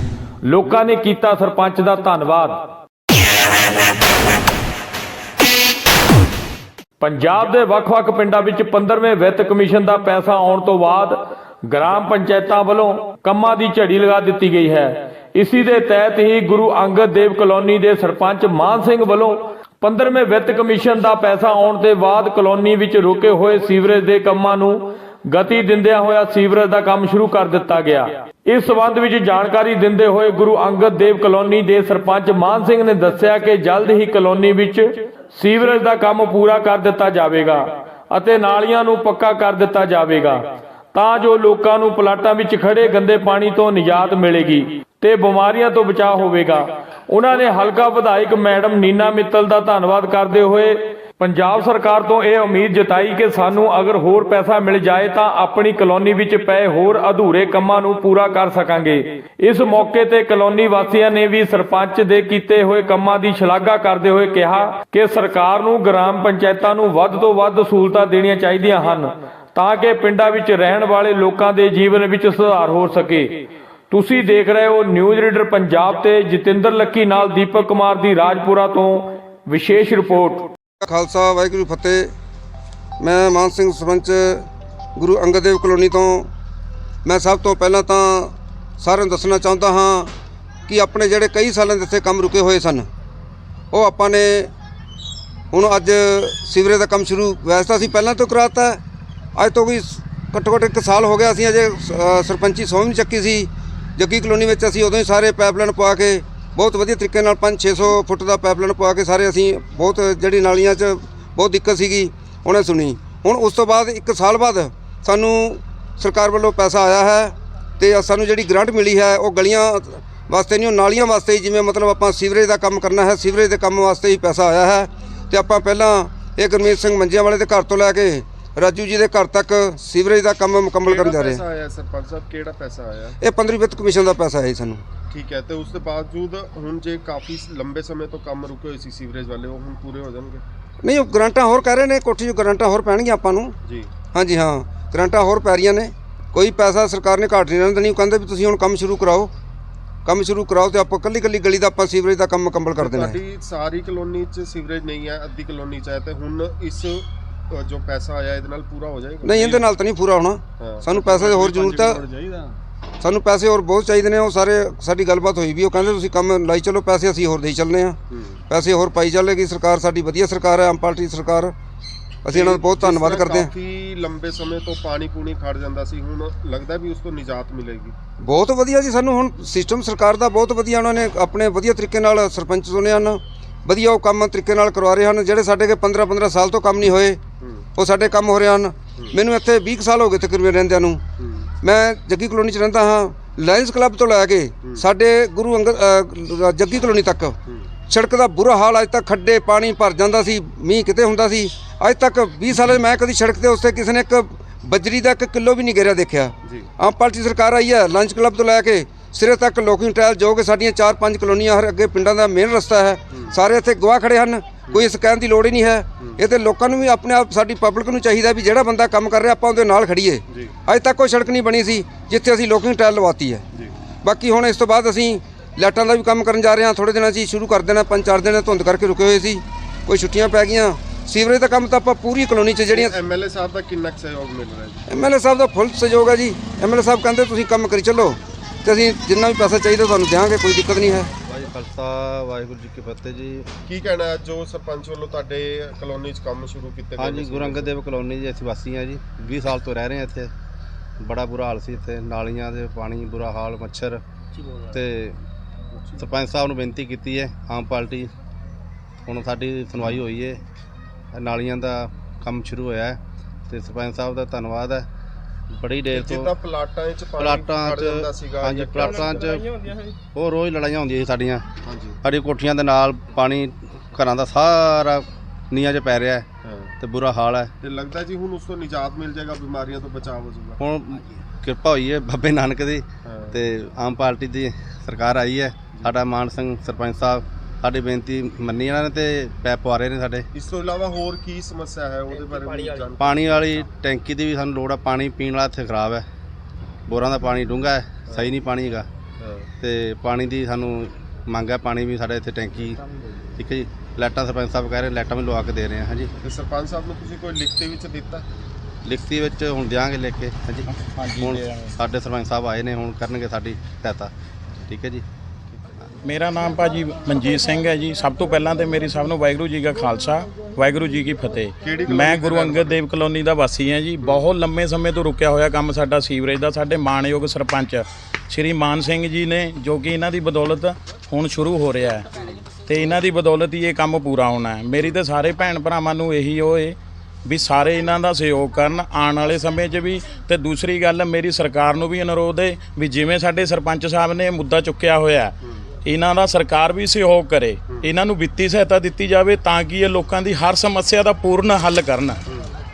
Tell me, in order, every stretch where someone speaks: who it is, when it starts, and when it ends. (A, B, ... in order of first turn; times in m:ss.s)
0:00.4-0:02.7 A
0:07.0-0:40.4 A
0:40.9-1:13.4 A
1:13.9-1:20.5 A
1:20.8-1:22.1 B
1:23.0-1:26.3 B
1:27.0-1:30.1 B
1:30.7-1:32.9 B
1:33.7-1:34.5 B
1:35.5-1:38.8 B
1:39.4-2:11.4 B
2:10.8-2:13.2 C
2:13.2-2:14.8 B
2:15.1-2:20.4 C
2:20.8-2:23.5 B
2:23.6-2:23.9 C
2:24.1-2:29.3 B
2:30.0-2:33.2 B
2:32.8-2:39.6 C
2:39.2-2:42.0 B
2:40.6-2:42.6 C
2:43.0-2:51.5 B
2:48.1-2:48.4 C
2:52.2-2:53.5 B
2:52.3-2:58.0 C
2:58.2-3:07.2 B
3:07.4-3:07.7 C
3:07.8-3:11.0 B
3:11.2-3:11.5 C
3:11.6-3:17.4 B
3:17.9-3:43.4 B
3:40.3-3:40.5 C
3:44.0-3:52.9 B
3:52.7-3:55.0 C
3:54.9-4:01.1 B
4:01.2-4:03.5 D
4:03.6-4:07.7 C
4:07.0-4:10.3 D
4:11.0-4:14.0 D
4:14.7-4:15.2 D
4:15.7-4:16.1 C
4:16.0-4:18.1 D
4:19.0-4:20.4 D
4:21.1-4:24.9 D
4:25.5-4:26.3 D
4:25.9-4:29.3 C
4:27.2-4:31.5 D
4:31.6-4:32.0 C
4:32.0-4:36.3 D
4:36.4-4:36.8 C
4:36.8-4:37.5 D
4:37.6-4:40.6 C
4:40.6-4:50.3 D
4:43.0-4:43.4 C
4:50.3-4:53.7 C
4:53.0-4:56.0 D
4:56.9-4:58.9 D
4:58.1-4:58.3 C
4:59.2-4:59.5 C
4:59.6-5:02.8 D
5:03.4-5:06.1 D
5:06.2-5:08.2 C
5:08.8-5:10.7 D
5:10.7-5:11.8 E
5:11.2-5:15.0 D
5:16.0-5:52.2 E
5:21.6-5:22.8 C
5:24.0-5:24.3 C